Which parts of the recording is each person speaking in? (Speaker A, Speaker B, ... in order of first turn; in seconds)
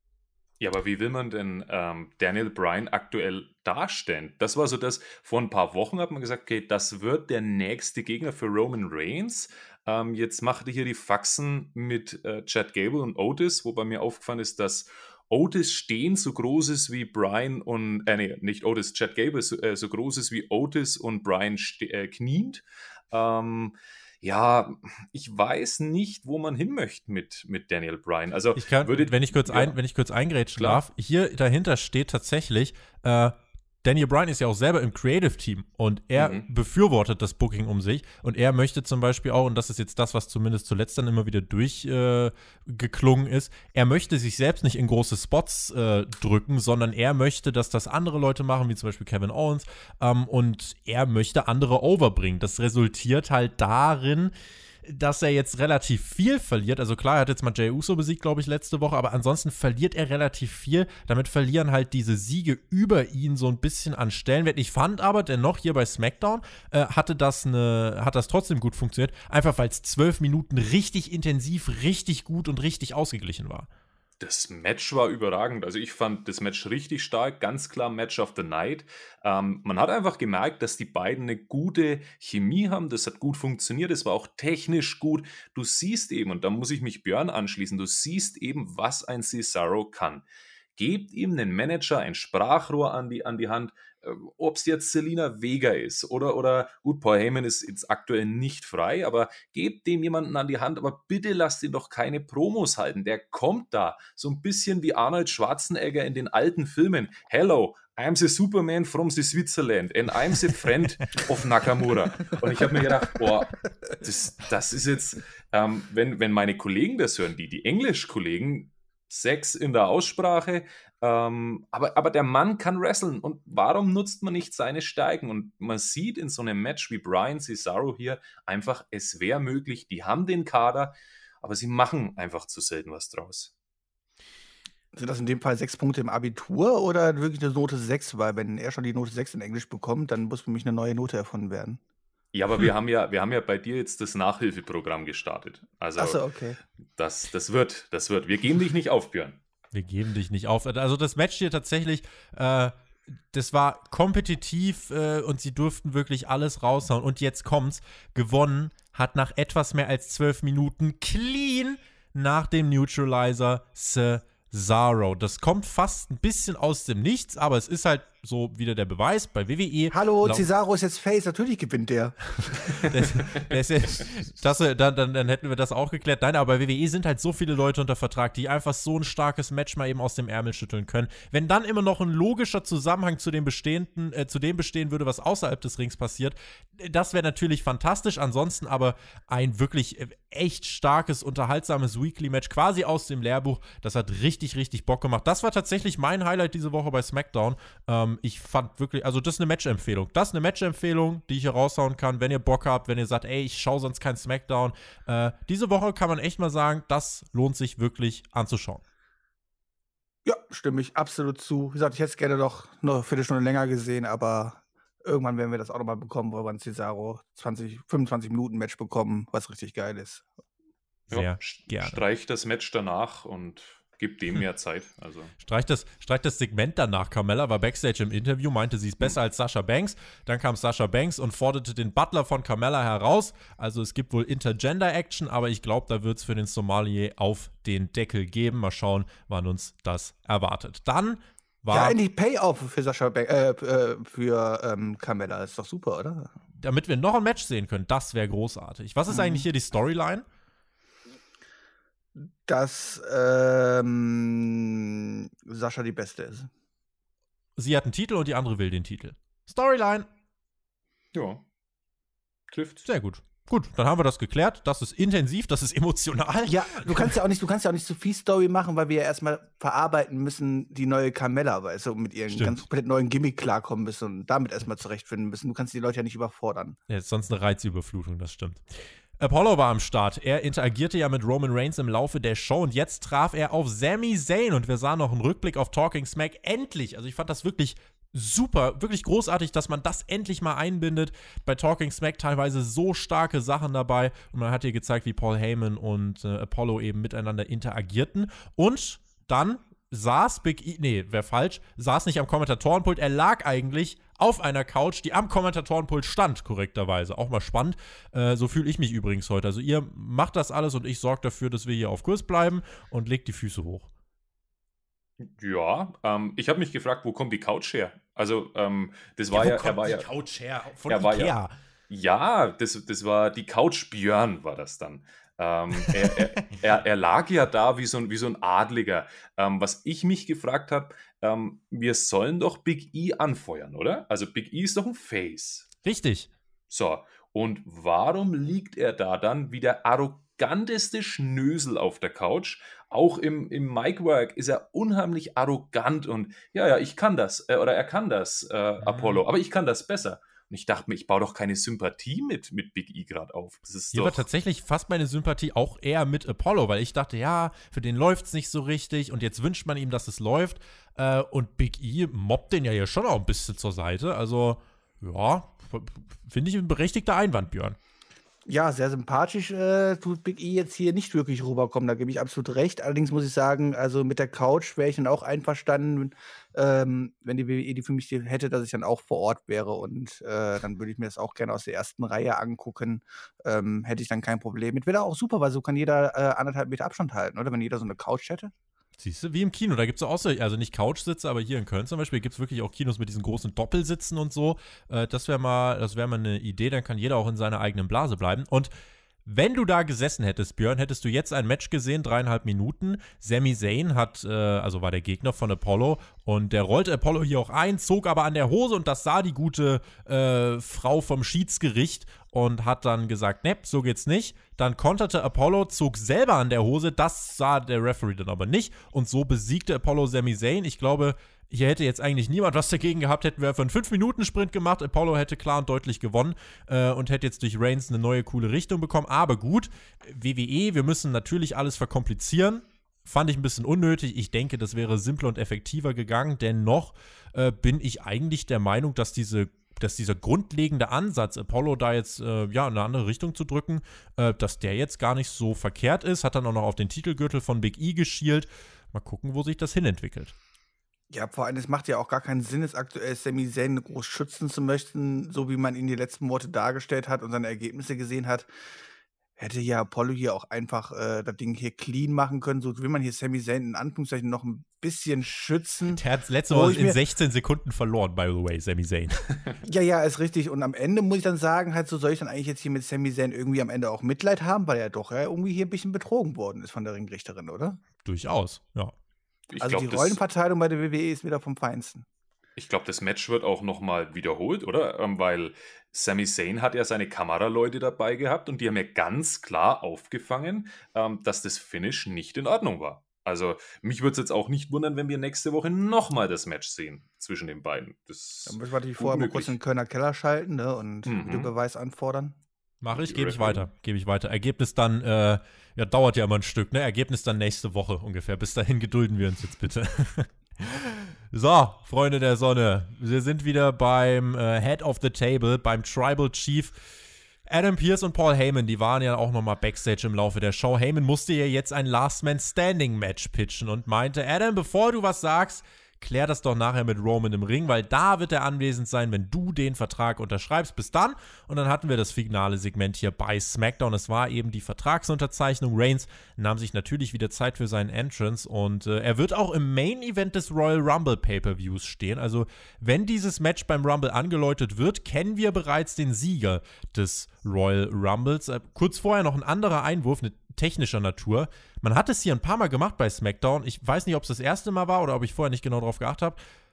Speaker A: 0.6-29.8, 30.6-30.8, 36.1-36.5, 74.2-90.2, 90.8-133.5, 142.3-146.2, 147.0-149.4, 221.1-225.3, 261.1-261.4, 262.5-262.9, 315.2-320.1, 320.9-321.3, 321.9-335.7, 336.7-354.3, 479.5-480.2, 482.6-499.6, 501.1-501.5, 502.9-503.7
Speaker B: 28.6-54.3, 54.8-73.7, 149.7-152.7, 153.3-170.5, 172.8-208.8, 221.1-222.0, 225.4-242.0, 246.6-250.3, 257.6-260.1, 262.9-267.1, 272.3-272.6, 276.9-278.6, 279.2-313.9, 319.3-321.5, 335.8-336.3, 348.8-349.2, 353.9-367.8, 389.0-398.7, 399.2-450.4, 465.9-469.3, 478.0-478.9, 502.8-516.8, 517.5-556.4
Speaker C: 134.9-141.8, 146.0-146.6, 169.9-173.2, 210.2-220.2, 241.7-246.3, 249.1-249.5, 252.4-256.5, 266.5-276.8, 368.5-388.5, 451.1-458.5, 459.4-467.0, 469.6-477.8, 479.6-482.1, 498.5-502.4